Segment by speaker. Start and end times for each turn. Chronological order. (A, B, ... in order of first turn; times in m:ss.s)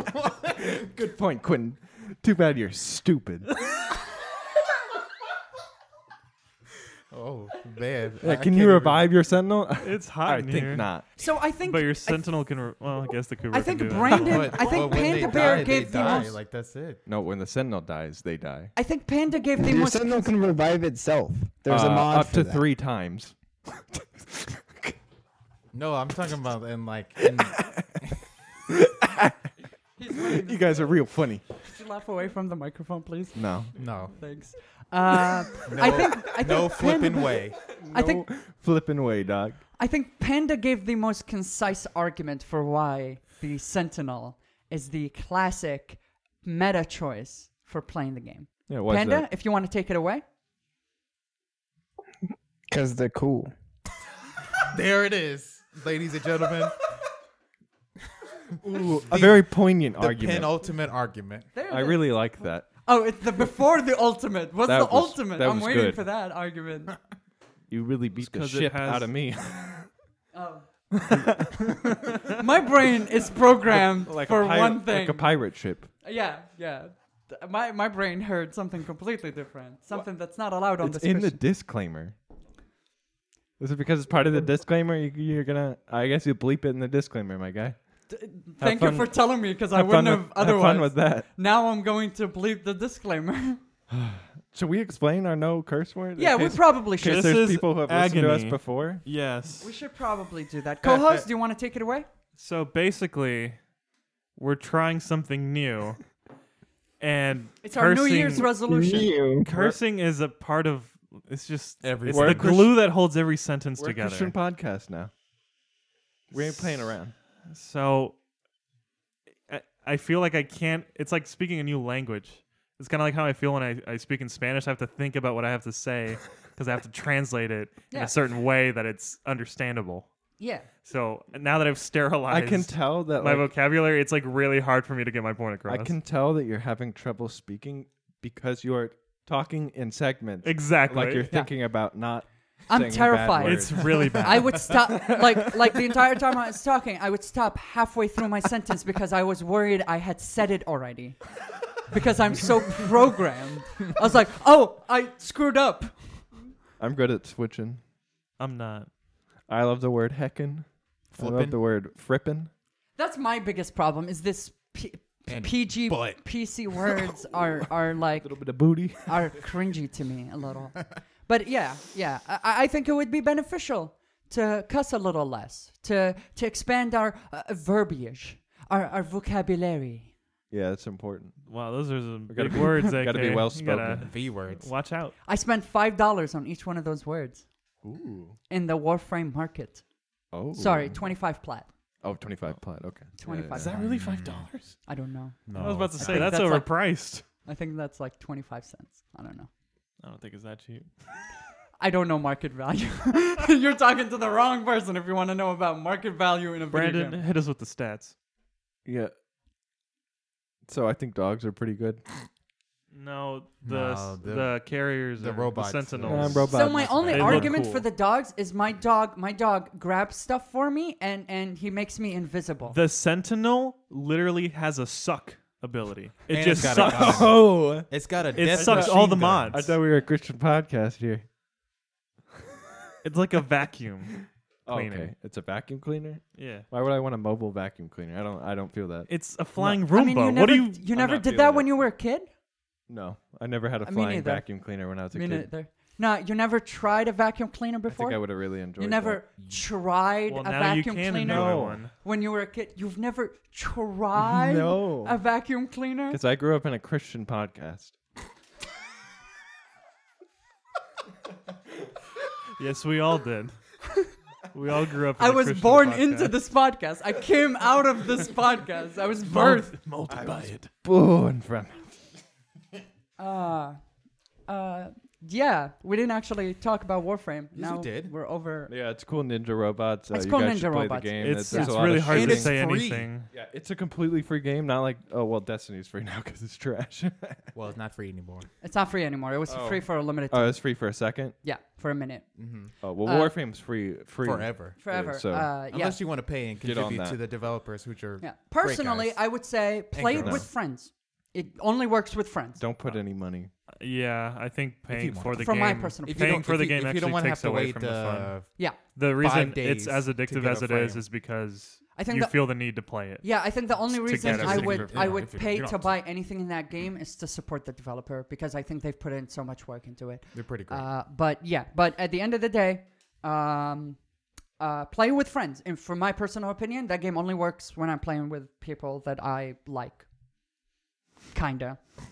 0:00.4-0:03.5 A
0:07.1-0:09.1 B
0:08.2-0:11.1 A
0:09.8-0:10.9 C
0:11.2-0:12.3 D
0:11.6-0:14.8 C
0:13.5-0:16.4 D
0:14.1-0:17.0 B
0:15.0-0:16.2 A
0:17.0-0:18.7 A
0:18.8-0:20.3 D
0:19.6-0:22.6 E
0:21.7-0:25.0 A
0:25.7-0:27.8 B
0:27.3-0:28.0 A
0:28.7-0:29.5 A
0:30.0-0:31.0 D
0:30.2-0:31.4 A
0:31.6-0:33.4 D
0:33.3-0:33.7 A
0:33.8-0:34.1 B
0:34.1-0:38.3 D
0:35.7-0:37.7 B
0:35.8-0:36.2 A
0:37.7-0:39.6 A
0:39.8-0:50.2 D
0:48.7-0:49.3 A
0:52.7-0:53.5 E
0:54.7-0:56.8 B
0:58.6-1:00.5 A
0:58.6-1:01.5 B
1:01.5-1:02.3 D
1:01.7-1:02.7 A
1:02.8-1:07.0 D
1:04.6-1:06.0 A
1:07.7-1:09.9 A
1:08.2-1:09.1 C
1:10.3-1:10.6 D
1:10.9-1:11.8 A
1:12.4-1:15.4 D
1:13.7-1:15.9 A
1:16.0-1:21.4 D
1:20.8-1:22.2 A
1:23.6-1:27.8 A
1:28.1-1:33.6 D
1:28.6-1:31.3 A
1:33.9-1:39.0 A
1:36.2-1:37.4 D
1:37.0-1:39.7 C
1:39.6-1:42.1 D
1:40.8-1:41.2 B
1:42.3-1:43.6 C
1:44.4-1:46.0 C
1:47.0-1:48.5 C
1:47.6-1:49.1 D
1:48.6-1:49.5 E
1:49.4-1:54.3 C
1:49.5-1:49.8 A
1:51.8-1:52.7 B
1:52.1-1:52.8 A
1:53.8-1:55.1 A
1:56.3-1:57.1 A
1:57.5-1:58.1 C
1:59.5-2:10.1 C
2:07.9-2:08.1 D
2:10.4-2:10.7 D
2:10.8-2:15.9 C
2:12.3-2:13.5 A
2:15.7-2:25.9 A
2:20.4-2:21.3 C
2:22.7-2:36.3 D
2:23.4-2:24.7 C
2:36.8-2:37.8 A
2:38.4-2:38.9 C
2:39.5-2:42.5 A
2:41.1-2:41.6 B
2:43.0-3:00.1 D
2:45.3-2:47.2 B
2:48.2-2:49.4 A
3:00.5-3:01.5 A
3:01.5-3:05.1 C
3:02.3-3:04.1 A
3:04.0-3:04.6 B
3:05.2-3:07.4 D
3:07.8-3:08.4 A
3:08.5-3:09.8 D
3:10.3-3:11.2 A
3:10.5-3:11.7 D
3:12.0-3:13.9 A
3:13.2-3:13.8 D
3:13.6-3:14.8 C
3:13.8-3:14.5 B
3:14.8-3:19.5 D
3:15.5-3:16.3 B
3:15.5-3:17.2 C
3:20.0-3:20.9 C
3:21.8-3:27.2 D
3:26.7-3:28.1 C
3:28.8-3:29.1 A
3:30.7-3:32.0 A
3:32.9-3:36.5 C
3:33.6-3:37.6 B
3:36.0-3:37.4 A
3:36.5-3:42.8 D
3:37.1-3:37.8 C
3:42.7-3:47.5 C
3:46.3-3:49.8 B
3:46.5-3:51.2 A
3:48.3-3:49.8 C
3:53.0-3:55.1 C
3:54.6-3:59.8 A
3:56.3-3:56.7 C
3:59.1-4:00.8 C
3:59.9-4:02.3 D
4:00.9-4:01.7 A
4:02.9-4:05.5 A
4:03.8-4:04.5 D
4:05.1-4:16.2 D
4:07.9-4:09.2 A
4:10.3-4:11.9 C
4:11.2-4:11.8 A
4:14.2-4:15.2 A
4:16.1-4:17.9 A
4:22.6-4:23.7 C
4:24.5-4:26.4 C
4:25.2-4:29.7 D
4:29.2-4:30.7 C
4:30.1-4:32.0 A
4:33.2-4:33.8 D
4:34.5-4:38.7 D
4:37.5-4:38.1 B
4:38.7-4:42.5 A
4:40.1-4:41.8 D
4:41.2-4:43.3 C
4:42.1-4:43.1 B
4:43.3-4:47.5 A
4:47.5-4:48.5 B
4:48.6-4:50.7 D
4:49.5-4:51.4 A
4:51.4-4:52.4 D
4:52.4-4:52.7 B
4:52.8-4:55.5 A
4:53.0-4:53.3 D
4:54.2-4:54.8 B
4:54.8-4:56.0 D
4:55.7-4:59.3 B
4:56.6-4:57.2 A
4:58.2-5:02.6 D
4:59.9-5:00.5 B
5:00.1-5:00.4 A
5:02.6-5:03.5 A
5:03.8-5:08.4 C
5:04.9-5:08.6 B
5:05.4-5:06.4 D
5:08.9-5:15.2 C
5:09.2-5:11.0 B
5:11.9-5:24.0 D
5:14.1-5:16.0 B
5:20.3-5:20.9 B
5:24.6-5:30.0 D
5:31.3-5:31.8 D